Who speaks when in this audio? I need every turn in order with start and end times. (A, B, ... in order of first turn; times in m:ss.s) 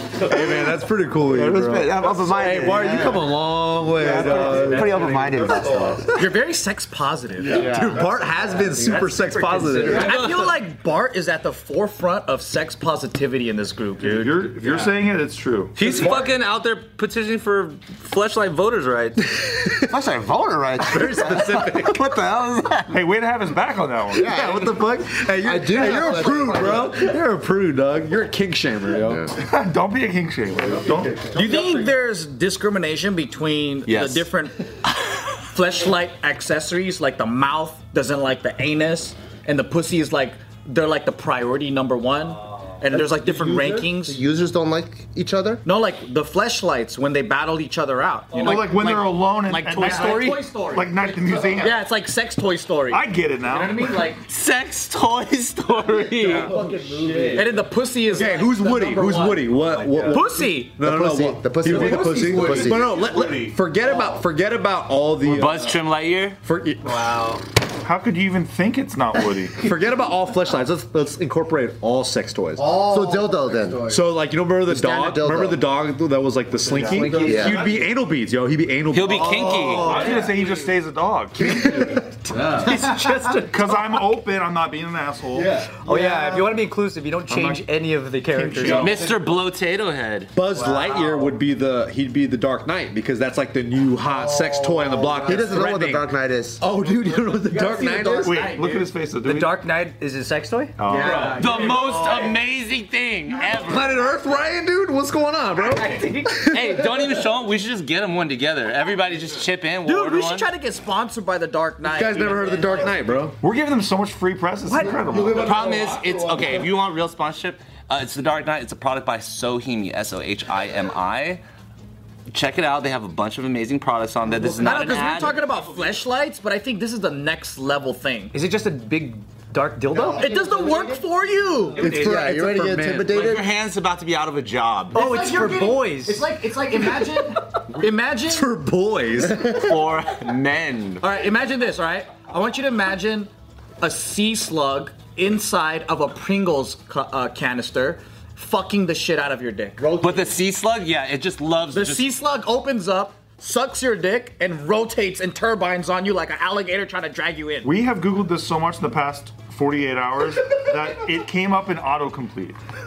0:00.2-0:04.9 A
0:01.3-0:03.3 B
0:04.0-0:06.1 B
0:04.1-0:05.8 C
0:05.4-0:06.0 D
0:06.1-0:07.8 E
0:07.4-0:08.0 D
0:07.5-0:08.8 B
0:07.6-0:10.2 A
0:08.8-0:09.8 C
0:09.6-0:10.6 F
0:09.9-0:14.3 E
0:14.0-0:15.8 D
0:15.8-0:19.2 F
0:15.8-0:16.2 C
0:19.3-0:19.8 C
0:19.9-0:23.0 B
0:20.9-0:22.0 C
0:22.9-0:24.4 D
0:24.1-0:24.7 B
0:24.2-0:27.2 C
0:24.3-0:29.3 A
0:25.4-0:27.0 B
0:29.3-0:31.9 D
0:31.3-0:44.2 E
0:33.8-0:34.3 F
0:42.9-0:45.6 B
0:45.6-0:54.2 E
0:48.3-0:51.8 D
0:48.4-0:49.0 C
0:49.8-0:50.4 C
0:52.9-0:54.1 D
0:54.3-0:56.5 F
0:56.2-0:57.6 C
0:57.3-1:00.8 E
0:58.1-1:05.7 A
0:59.6-1:00.3 C
1:00.8-1:02.9 B
1:01.8-1:02.8 C
1:05.2-1:06.4 F
1:06.4-1:07.0 A
1:07.8-1:09.7 D
1:09.6-1:12.7 A
1:12.6-1:13.9 B
1:13.8-1:20.2 A
1:14.7-1:15.6 B
1:16.7-1:17.9 D
1:16.7-1:17.7 C
1:17.0-1:17.6 B
1:18.9-1:20.1 F
1:19.5-1:20.3 C
1:19.6-1:21.6 D
1:21.4-1:22.1 A
1:21.9-1:24.0 C
1:22.3-1:22.7 F
1:23.4-1:25.6 D
1:25.3-1:26.5 A
1:25.7-1:29.0 C
1:27.3-1:27.7 D
1:28.3-1:29.1 D
1:28.6-1:30.3 F
1:28.8-1:29.2 A
1:30.3-1:36.1 A
1:30.6-1:31.3 E
1:34.2-1:35.3 E
1:35.2-1:36.6 B
1:36.6-1:38.3 C
1:36.8-1:38.9 E
1:37.4-1:38.2 A
1:38.0-1:38.3 B
1:38.2-1:39.6 D
1:39.2-1:42.1 C
1:40.8-1:41.5 D
1:40.8-1:42.3 E
1:41.0-1:41.4 A
1:41.3-1:44.0 F
1:43.6-1:46.6 A
1:45.7-1:46.8 C
1:46.3-1:50.5 F
1:49.8-1:53.0 E
1:51.8-1:53.4 A
1:53.4-1:55.7 D
1:54.7-1:55.1 C
1:55.0-1:56.7 A
1:55.3-2:01.4 F
2:02.3-2:05.4 F
2:04.6-2:08.3 E
2:08.3-2:10.4 C
2:09.9-2:11.0 B
2:10.1-2:12.0 E
2:11.8-2:12.2 C
2:11.8-2:13.2 A
2:11.8-2:13.5 B
2:13.1-2:15.0 F
2:14.9-2:18.5 E
2:15.0-2:16.3 C
2:18.3-2:19.8 A
2:19.4-2:21.0 F
2:21.0-2:23.3 E
2:23.8-2:29.9 E
2:29.8-2:30.2 B
2:30.0-2:32.1 F
2:31.7-2:37.7 E
2:37.6-2:42.6 D